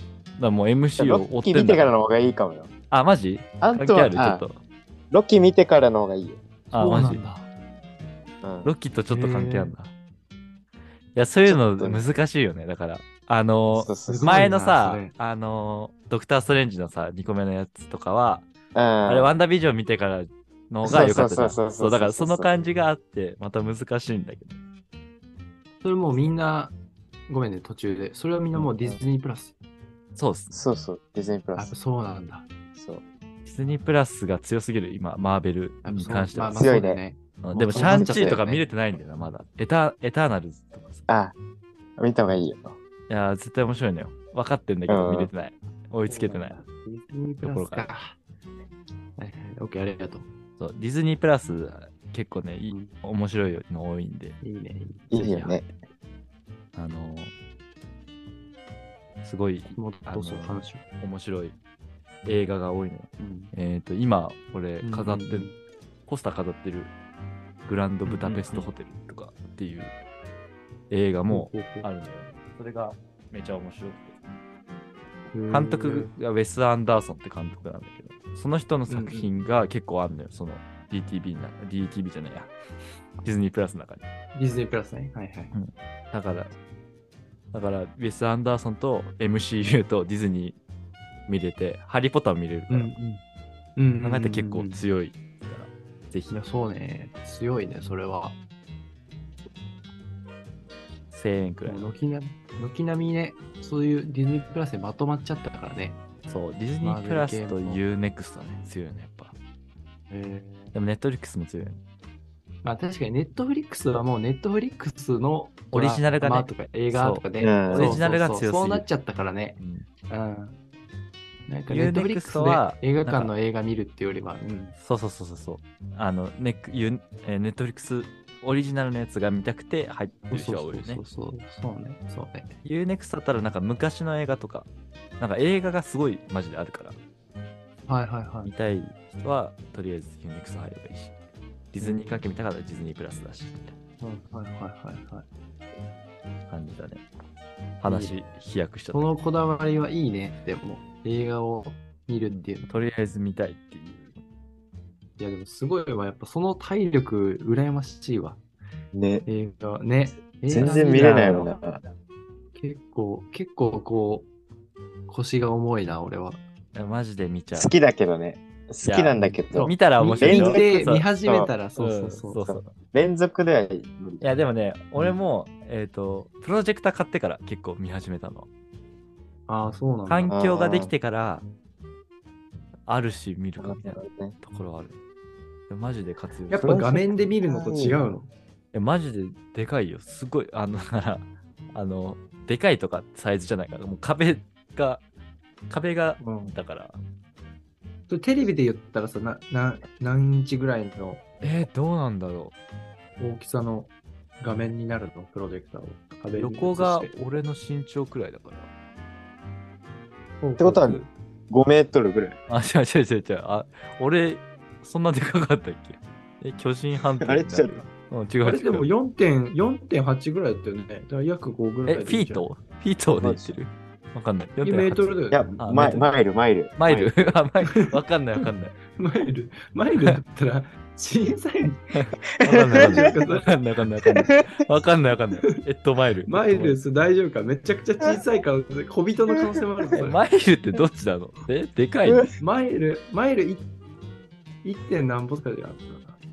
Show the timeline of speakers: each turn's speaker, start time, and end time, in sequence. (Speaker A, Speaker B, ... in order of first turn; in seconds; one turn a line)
Speaker A: 0.4-1.9
Speaker B: 1.0-2.7
Speaker A: 2.9-4.6
Speaker B: 3.6-4.5
Speaker B: 5.1-6.4
Speaker A: 6.7-7.2
Speaker C: 6.7-7.5
Speaker B: 8.4-8.7
Speaker A: 8.6-9.9
Speaker C: 9.1-9.7
Speaker A: 11.1-18.5
Speaker B: 11.5-12.0
Speaker B: 13.7-14.5
Speaker C: 14.1-15.1
Speaker B: 18.7-19.3
Speaker A: 19.1-24.6
Speaker B: 20.8-22.6
Speaker C: 25.8-26.7
Speaker C: 27.3-29.6
Speaker A: 30.2-30.6
Speaker B: 30.5-31.7
Speaker C: 31.6-32.5
Speaker A: 32.8-36.7
Speaker C: 35.8-38.6
Speaker B: 36.5-37.0
Speaker A: 37.4-41.1
Speaker B: 37.7-38.4
Speaker B: 41.1-41.3
Speaker B: 42.0-42.8
Speaker A: 43.1-46.6
Speaker B: 44.9-45.3
Speaker C: 46.1-48.2
Speaker A: 47.4-47.9
Speaker C: 49.2-50.3
Speaker A: 50.6-54.4
Speaker C: 54.4-55.1
Speaker B: 55.1-55.7
Speaker A: 55.1-55.6
Speaker A: 56.7-57.3
Speaker A: 59.2-61.5
Speaker C: 59.7-60.8
Speaker A: 62.2-65.5
Speaker C: 63.2-63.5
Speaker C: 64.8-65.5
Speaker A: 66.1-66.9
Speaker A: 67.7-70.0
Speaker C: 68.0-68.7
Speaker A: 70.9-74.2
Speaker C: 71.3-71.9
Speaker C: 75.3-76.1
Speaker A: 75.5-82.5
Speaker C: 78.9-79.3
Speaker A: 83.2-84.0
Speaker C: 84.3-85.5
Speaker A: 85.5-86.5
Speaker A: 87.5-90.6
Speaker A: 91.3-92.9
Speaker C: 92.7-93.2
Speaker C: 93.8-94.8
Speaker A: 94.0-96.4
Speaker C: 96.3-98.4
Speaker A: 101.1-101.9
Speaker C: 101.7-106.0
Speaker A: 106.3-109.3
Speaker C: 106.8-107.8
Speaker C: 110.1-110.7
Speaker A: 110.7-111.8
Speaker C: 112.6-120.5
Speaker A: 115.7-118.8
Speaker B: 117.4-118.0
Speaker A: 119.6-119.9
Speaker C: 121.5-124.7
Speaker A: 121.7-123.3
Speaker A: 124.8-131.0
Speaker C: 130.3-132.6
Speaker A: 132.6-134.7
Speaker A: 135.2-136.9
Speaker C: 137.9-138.5
Speaker A: 138.4-141.1
Speaker A: 141.7-143.7
Speaker C: 141.8-142.2
Speaker C: 144.0-145.3
Speaker A: 146.5-147.0
Speaker A: 147.8-149.1
Speaker C: 147.9-148.2
Speaker C: 148.9-152.7
Speaker A: 152.3-154.2
Speaker C: 155.2-158.4
Speaker B: 158.9-159.2
Speaker C: 159.3-161.5
Speaker B: 160.5-161.8
Speaker C: 162.6-164.3
Speaker C: 165.1-166.4
Speaker A: 166.7-167.7
Speaker B: 167.6-170.6
Speaker A: 168.8-171.1
Speaker C: 169.2-172.4
Speaker B: 171.2-171.5
Speaker A: 171.8-172.7
Speaker B: 172.5-174.3
Speaker A: 174.2-178.5
Speaker C: 179.5-180.3
Speaker A: 180.1-181.4
Speaker B: 180.3-180.9
Speaker A: 182.9-184.9
Speaker B: 183.6-184.3
Speaker A: 185.7-186.8
Speaker C: 186.5-188.3
Speaker B: 186.6-188.0
Speaker A: 188.7-195.0
Speaker A: 195.7-197.0
Speaker C: 196.2-196.5
Speaker C: 198.1-201.3
Speaker A: 201.4-202.5
Speaker C: 203.2-207.1
Speaker A: 206.3-208.7
Speaker C: 210.4-211.1
Speaker B: 210.6-212.4
Speaker A: 212.5-218.9
Speaker B: 217.2-217.8
Speaker C: 218.4-222.4
Speaker A: 221.9-225.1
Speaker B: 223.2-223.5
Speaker C: 224.6-225.7
Speaker B: 225.3-227.2
Speaker A: 225.6-226.1
Speaker A: 226.8-228.7
Speaker C: 227.6-227.9
Speaker C: 228.9-231.8
Speaker A: 231.9-236.8
Speaker B: 232.4-233.1
Speaker C: 232.7-233.5
Speaker B: 234.3-234.6
Speaker C: 236.3-240.2
Speaker A: 240.0-242.3
Speaker C: 242.4-243.7
Speaker C: 244.6-246.2